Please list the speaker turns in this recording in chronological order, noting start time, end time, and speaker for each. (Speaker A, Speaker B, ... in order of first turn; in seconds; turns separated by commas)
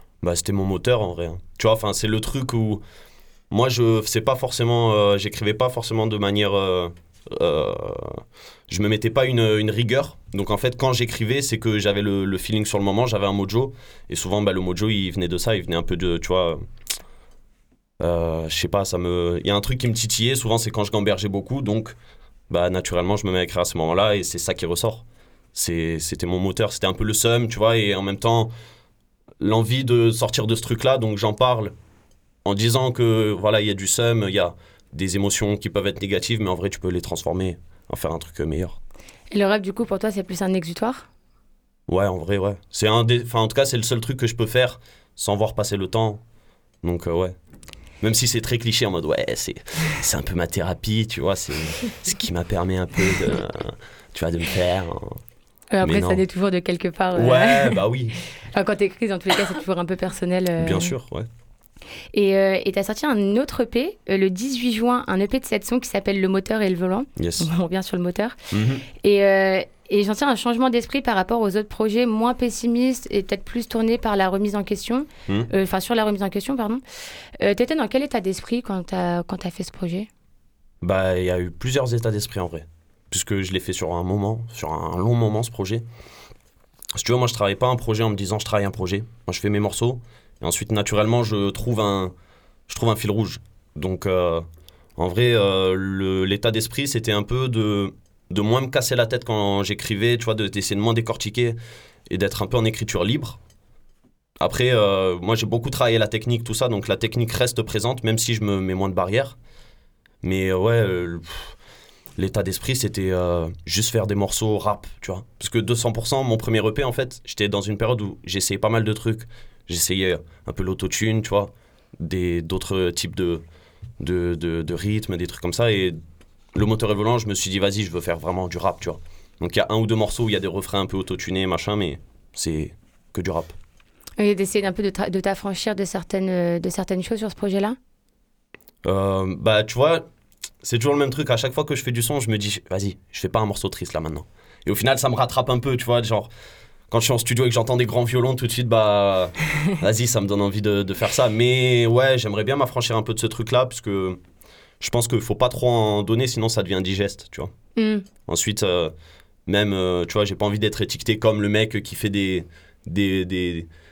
Speaker A: 0.2-2.8, Speaker A: 3.5-16.6, Speaker A: 18.0-21.9, Speaker A: 22.5-25.0, Speaker A: 25.6-28.5, Speaker A: 29.4-31.7, Speaker A: 32.5-38.8, Speaker B: 39.3-41.1, Speaker A: 41.9-46.2, Speaker A: 46.8-47.4, Speaker A: 48.0-55.2, Speaker B: 55.7-57.8, Speaker A: 55.8-56.2, Speaker A: 57.1-58.2, Speaker B: 58.5-60.9, Speaker A: 60.6-61.3, Speaker B: 62.1-68.3, Speaker A: 67.2-67.5, Speaker A: 68.5-68.9, Speaker B: 69.0-76.8, Speaker B: 77.4-80.1, Speaker A: 80.8-85.8, Speaker A: 87.0-92.1, Speaker A: 92.7-94.5, Speaker A: 95.0-103.4, Speaker A: 104.4-109.4, Speaker A: 110.2-111.5, Speaker A: 112.2-123.4, Speaker A: 124.0-126.0, Speaker A: 126.5-133.6, Speaker B: 134.2-137.8, Speaker A: 138.8-140.1, Speaker A: 140.6-146.3, Speaker A: 146.9-154.2, Speaker A: 154.8-157.5, Speaker B: 157.8-158.1, Speaker A: 158.3-158.9, Speaker A: 159.5-163.7